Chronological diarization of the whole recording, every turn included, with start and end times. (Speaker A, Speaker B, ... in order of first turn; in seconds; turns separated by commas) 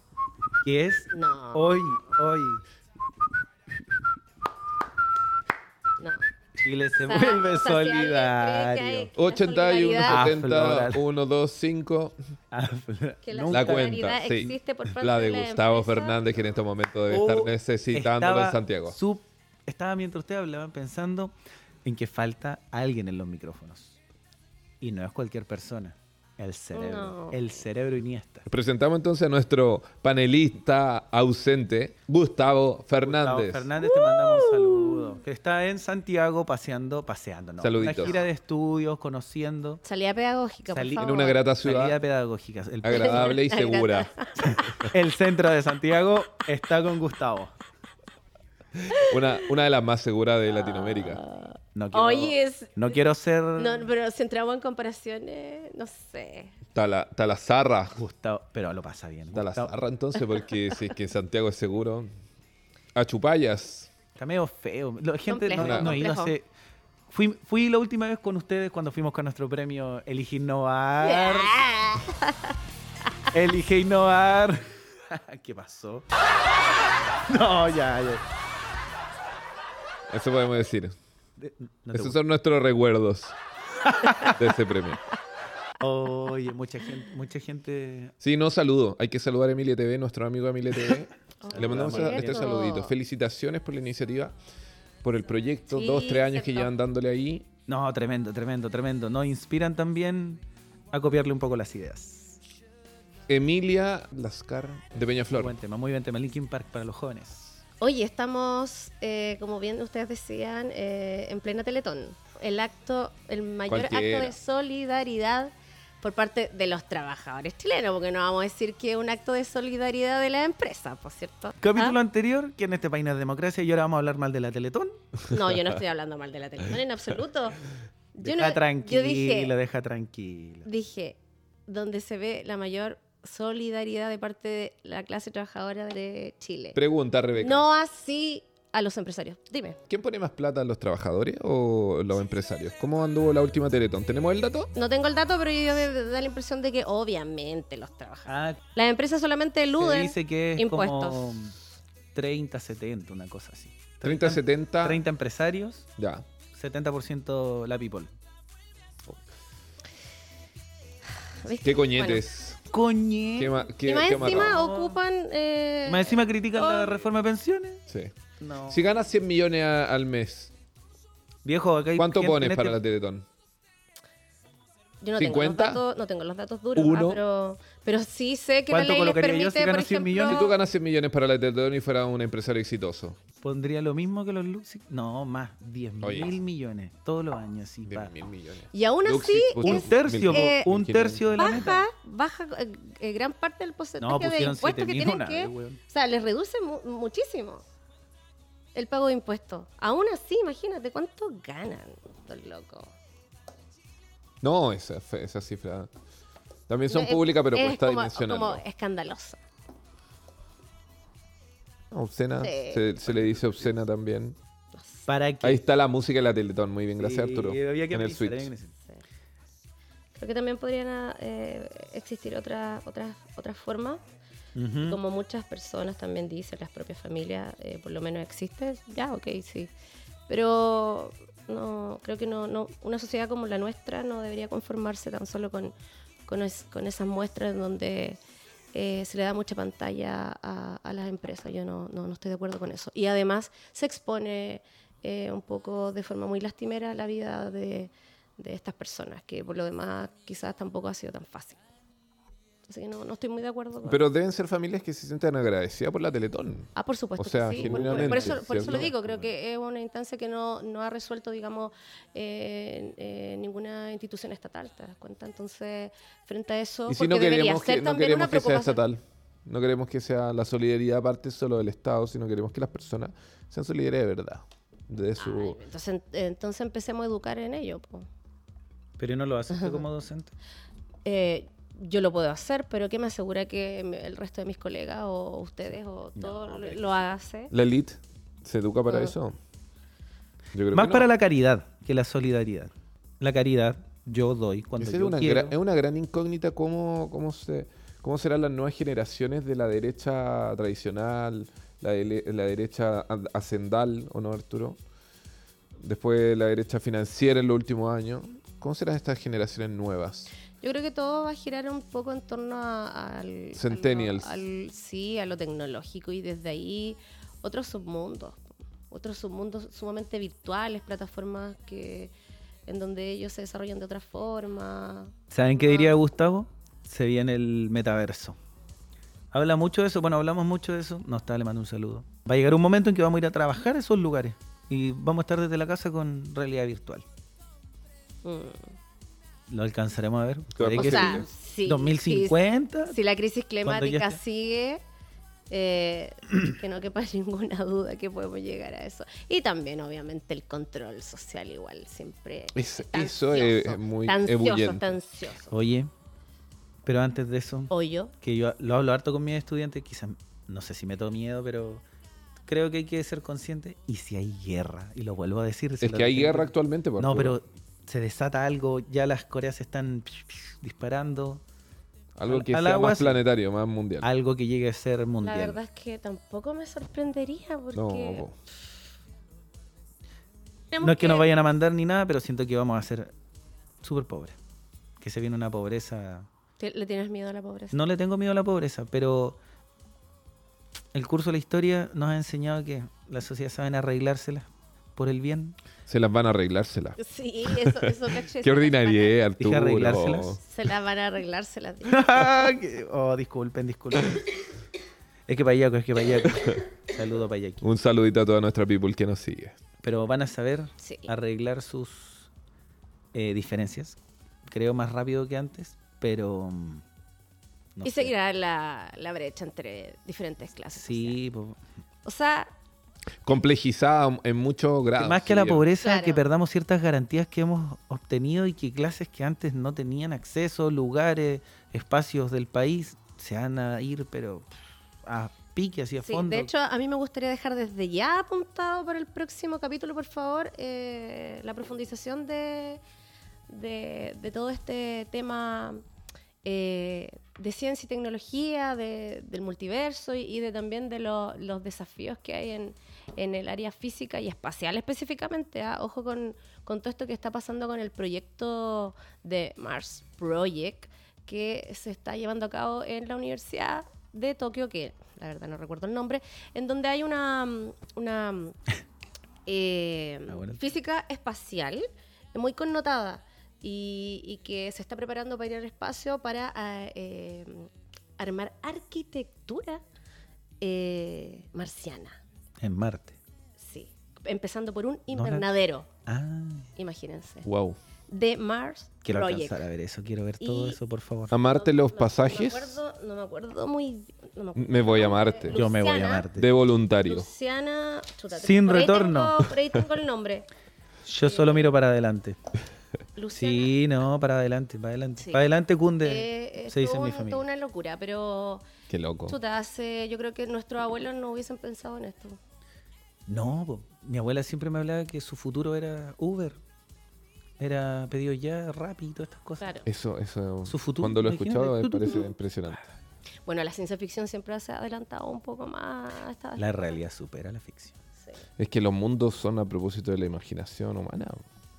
Speaker A: 0.6-2.6, Speaker B: 1.1-1.7, Speaker B: 6.0-6.2, Speaker A: 6.6-9.1, Speaker B: 7.0-10.3, Speaker C: 9.2-12.2, Speaker A: 10.0-11.0, Speaker A: 12.5-14.0, Speaker B: 13.2-16.4, Speaker C: 13.5-19.0, Speaker A: 17.1-21.3, Speaker A: 21.8-24.0, Speaker A: 24.8-28.5, Speaker B: 26.7-27.4, Speaker C: 28.5-33.7, Speaker A: 33.0-39.8, Speaker B: 33.8-35.1, Speaker C: 37.6-38.2, Speaker B: 39.8-41.4, Speaker A: 40.7-43.4, Speaker C: 41.0-42.0, Speaker C: 42.8-44.1, Speaker B: 42.9-44.7, Speaker A: 44.4-47.5, Speaker C: 48.9-51.2, Speaker B: 48.9-49.2, Speaker B: 50.5-52.9, Speaker A: 51.8-53.9, Speaker B: 53.6-56.6, Speaker C: 56.7-58.0, Speaker A: 57.9-59.7, Speaker C: 59.3-62.1, Speaker C: 63.0-63.9, Speaker A: 64.2-66.5, Speaker B: 65.3-66.3, Speaker C: 65.6-66.0, Speaker A: 67.1-71.5, Speaker B: 71.0-72.5, Speaker A: 73.3-76.1, Speaker A: 77.3-78.2, Speaker C: 80.1-80.9, Speaker A: 81.4-82.2, Speaker C: 81.9-83.3, Speaker A: 83.8-84.3, Speaker C: 84.2-85.0, Speaker A: 85.8-88.1, Speaker C: 88.2-94.3, Speaker B: 91.4-92.9, Speaker A: 91.5-92.5, Speaker C: 95.0-97.5, Speaker B: 95.7-96.7, Speaker A: 97.7-102.4, Speaker C: 103.3-105.6, Speaker A: 105.3-107.6, Speaker B: 107.8-122.0, Speaker C: 113.7-114.3, Speaker A: 121.6-125.0, Speaker B: 125.3-127.6, Speaker B: 128.1-129.5, Speaker A: 128.2-130.7, Speaker B: 130.6-136.8, Speaker C: 136.7-137.7, Speaker B: 137.3-139.8, Speaker C: 139.9-144.7, Speaker B: 144.7-151.4, Speaker A: 148.3-148.6, Speaker A: 149.8-151.6, Speaker A: 152.1-155.9, Speaker C: 154.0-155.0, Speaker C: 156.0-156.2, Speaker A: 156.5-158.1, Speaker B: 161.4-162.2, Speaker C: 161.6-162.6, Speaker A: 162.7-165.0, Speaker C: 163.3-164.6, Speaker B: 163.8-167.0, Speaker A: 165.8-167.8, Speaker C: 167.9-168.1, Speaker A: 168.4-168.8, Speaker C: 168.7-170.5, Speaker A: 171.4-172.8, Speaker C: 172.0-173.2, Speaker B: 175.0-180.5, Speaker C: 175.2-175.8, Speaker C: 176.7-177.2, Speaker A: 178.7-180.4, Speaker C: 180.2-183.2, Speaker A: 183.4-188.1, Speaker C: 186.0-186.4, Speaker C: 187.9-191.7, Speaker B: 188.7-190.7, Speaker A: 189.6-191.8, Speaker B: 191.4-197.6, Speaker A: 194.0-195.8, Speaker B: 198.7-202.9, Speaker C: 204.4-205.9, Speaker C: 206.7-208.6, Speaker B: 206.9-209.4, Speaker C: 211.9-214.3, Speaker B: 212.4-212.8, Speaker B: 214.7-215.1, Speaker A: 215.1-215.6, Speaker C: 215.4-218.5, Speaker A: 217.0-218.7, Speaker B: 220.2-224.0, Speaker A: 224.6-225.0, Speaker B: 224.8-229.7, Speaker B: 230.3-235.7, Speaker B: 236.3-238.2, Speaker B: 238.7-251.6, Speaker B: 252.7-254.0, Speaker C: 253.8-259.0, Speaker B: 256.8-268.8, Speaker A: 257.6-258.9, Speaker C: 266.9-275.6, Speaker B: 275.2-278.1, Speaker A: 279.0-280.3, Speaker B: 279.5-279.8, Speaker B: 281.1-287.5, Speaker A: 286.2-286.9, Speaker C: 287.5-289.4, Speaker B: 288.9-289.1, Speaker C: 290.5-291.1, Speaker A: 290.7-295.6, Speaker C: 294.8-304.8, Speaker C: 305.8-310.3, Speaker B: 310.6-318.4, Speaker C: 313.6-314.4, Speaker B: 318.9-322.1, Speaker B: 322.7-326.0, Speaker A: 325.3-328.4, Speaker A: 329.3-337.1, Speaker B: 338.2-338.7, Speaker A: 339.5-343.0, Speaker C: 340.6-341.3, Speaker B: 340.8-344.8, Speaker A: 343.6-344.2, Speaker B: 345.5-355.6, Speaker C: 352.6-355.0, Speaker A: 355.5-355.9, Speaker A: 356.9-361.8, Speaker B: 357.7-358.1, Speaker A: 362.5-371.4, Speaker C: 365.8-367.4, Speaker C: 372.2-374.1, Speaker A: 372.3-373.2, Speaker A: 374.0-375.6, Speaker B: 375.2-378.3, Speaker C: 377.7-378.3, Speaker B: 380.7-381.3, Speaker A: 380.8-383.1, Speaker A: 383.8-384.4, Speaker A: 385.0-386.3, Speaker B: 386.6-387.8, Speaker A: 387.7-389.4, Speaker A: 390.9-395.6, Speaker C: 395.9-400.4, Speaker B: 397.0-399.1, Speaker A: 399.4-400.4, Speaker B: 400.4-402.2, Speaker A: 401.9-404.2, Speaker A: 405.3-407.6, Speaker C: 406.2-406.6, Speaker C: 407.6-409.6, Speaker A: 409.8-412.3, Speaker B: 410.8-411.1, Speaker A: 413.1-416.8, Speaker A: 417.8-418.1, Speaker B: 417.8-421.2, Speaker A: 420.8-421.6, Speaker B: 422.1-422.5, Speaker C: 423.2-425.7, Speaker A: 425.0-436.5, Speaker B: 425.8-426.2, Speaker B: 436.0-442.8, Speaker B: 443.5-445.8, Speaker B: 446.4-468.6, Speaker B: 469.4-479.8, Speaker A: 470.3-470.6, Speaker B: 480.6-482.2, Speaker A: 482.6-483.2, Speaker B: 483.6-485.9, Speaker A: 485.1-485.4, Speaker A: 486.1-486.7, Speaker B: 486.8-487.5, Speaker C: 487.4-487.8, Speaker B: 488.1-489.6, Speaker A: 489.0-491.3, Speaker B: 490.4-490.8, Speaker C: 491.3-492.8, Speaker B: 491.4-496.3, Speaker C: 494.6-495.6, Speaker A: 495.5-496.5, Speaker C: 496.3-497.3, Speaker B: 497.1-500.5, Speaker A: 498.3-499.4, Speaker A: 501.1-502.4, Speaker B: 501.2-501.7, Speaker B: 503.2-503.7, Speaker A: 503.3-507.4, Speaker B: 506.0-508.6, Speaker C: 508.9-509.4, Speaker B: 509.3-512.4, Speaker A: 513.3-516.6, Speaker A: 517.6-519.7, Speaker B: 519.6-519.9, Speaker C: 519.9-522.8, Speaker A: 520.6-522.3, Speaker B: 523.5-527.0, Speaker A: 526.6-527.9, Speaker C: 528.6-531.4